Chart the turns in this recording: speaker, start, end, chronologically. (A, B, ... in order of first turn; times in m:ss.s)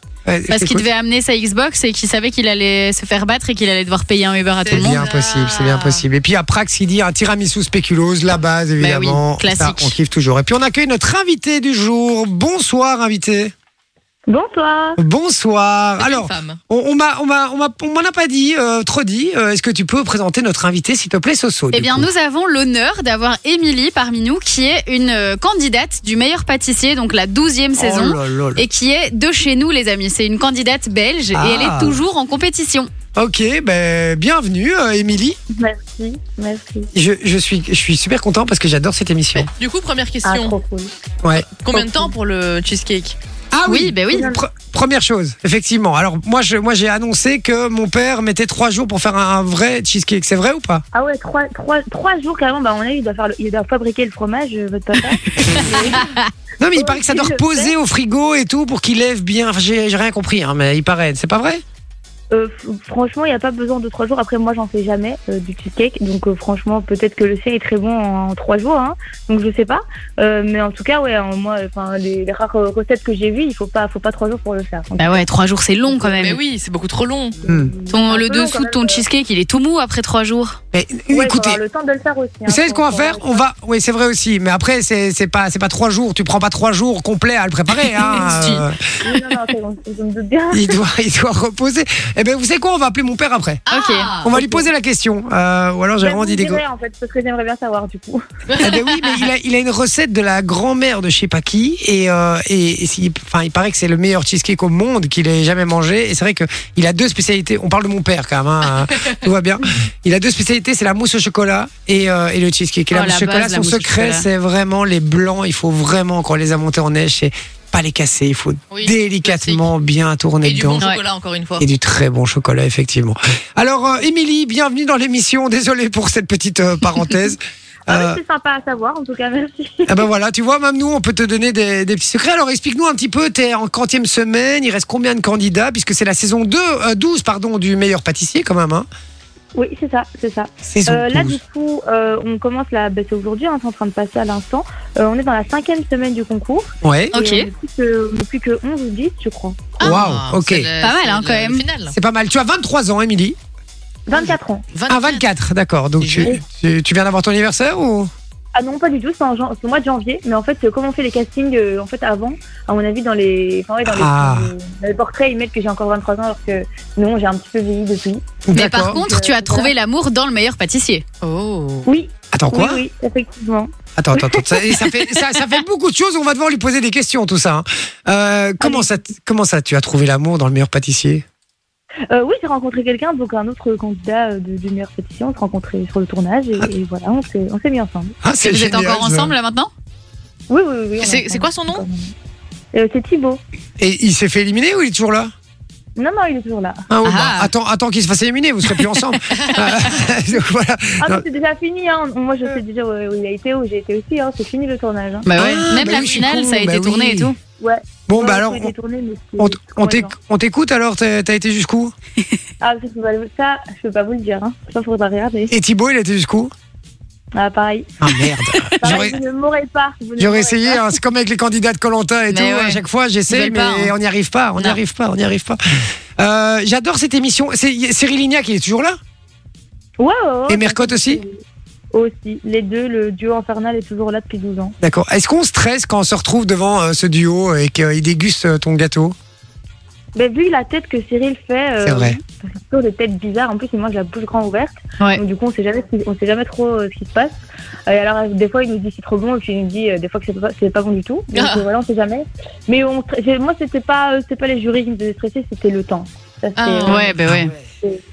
0:00.2-0:00.8 A
0:00.5-0:05.0 B
0:04.6-0:06.0 C
0:04.7-0:13.5 A
0:08.8-0:09.9 B
0:14.3-0:15.0 D
0:15.0-0:22.1 A
0:16.0-0:16.6 C
0:21.7-0:32.9 B
0:27.8-0:28.6 A
0:31.3-0:32.0 A
0:33.1-0:35.4 A
0:35.5-0:36.9 D
0:36.9-0:39.5 A
0:39.5-0:40.6 C
0:40.2-0:40.9 D
0:41.2-0:41.8 A
0:41.6-0:43.2 C
0:43.5-0:50.8 A
0:43.6-0:44.3 B
0:44.1-0:44.4 D
0:50.9-0:56.1 D
0:56.0-0:56.2 B
0:56.6-1:01.6 A
0:56.7-0:57.7 D
1:02.3-1:15.2 D
1:15.0-1:16.4 B
1:15.9-1:16.2 D
1:16.2-1:17.4 C
1:17.4-1:17.7 A
1:17.4-1:19.0 D
1:17.9-1:20.6 B
1:20.7-1:21.6 A
1:21.1-1:23.4 D
1:22.5-1:28.8 A
1:28.0-1:28.6 B
1:29.0-1:30.8 D
1:30.5-1:33.6 A
1:33.7-1:34.4 C
1:33.7-1:34.1 B
1:34.2-1:36.6 A
1:34.3-1:34.7 D
1:36.0-1:38.2 D
1:38.5-1:39.2 C
1:38.6-2:00.8 A
1:52.9-1:54.3 B
1:58.7-1:59.6 C
2:00.4-2:01.6 C
2:01.6-2:08.2 A
2:07.9-2:10.0 D
2:09.9-2:18.9 A
2:19.5-2:29.8 D
2:20.6-2:21.4 A
2:26.8-2:27.1 A
2:27.1-2:27.5 B
2:29.8-2:31.9 C
2:29.8-2:30.7 A
2:30.8-2:31.6 B
2:31.9-2:33.4 A
2:34.1-2:34.6 D
2:34.7-2:35.2 C
2:34.9-2:38.1 A
2:36.0-2:36.3 C
2:38.5-2:48.4 D
2:43.8-2:44.5 A
2:48.4-2:49.0 A
2:48.5-2:51.0 B
2:48.9-2:49.7 D
2:51.2-2:51.9 C
2:51.8-2:54.7 D
2:52.3-2:52.8 A
2:54.0-3:01.2 A
2:58.6-2:58.9 D
3:02.1-3:08.1 D
3:08.2-3:09.3 A
3:08.4-3:09.7 B
3:10.5-3:12.1 D
3:11.0-3:11.8 C
3:12.7-3:13.4 D
3:13.8-3:15.3 A
3:16.0-3:16.8 D
3:16.9-3:21.2 A
3:17.0-3:17.5 B
3:19.3-3:19.8 C
3:21.0-3:25.3 D
3:25.2-3:27.4 B
3:25.3-3:27.3 A
3:27.6-3:30.1 D
3:28.1-3:28.7 A
3:29.4-3:31.9 A
3:32.6-3:35.5 D
3:35.5-3:36.5 A
3:37.3-3:37.9 D
3:38.0-3:39.2 A
3:38.8-3:40.9 D
3:40.2-3:45.6 A
3:42.3-3:43.9 B
3:46.2-3:49.0 A
3:50.0-3:51.4 D
3:50.5-3:51.2 A
3:51.9-3:54.8 D
3:54.8-3:59.1 A
4:00.1-4:17.1 D
4:01.8-4:02.2 A
4:11.3-4:11.6 C
4:16.6-4:17.2 C
4:16.9-4:17.5 B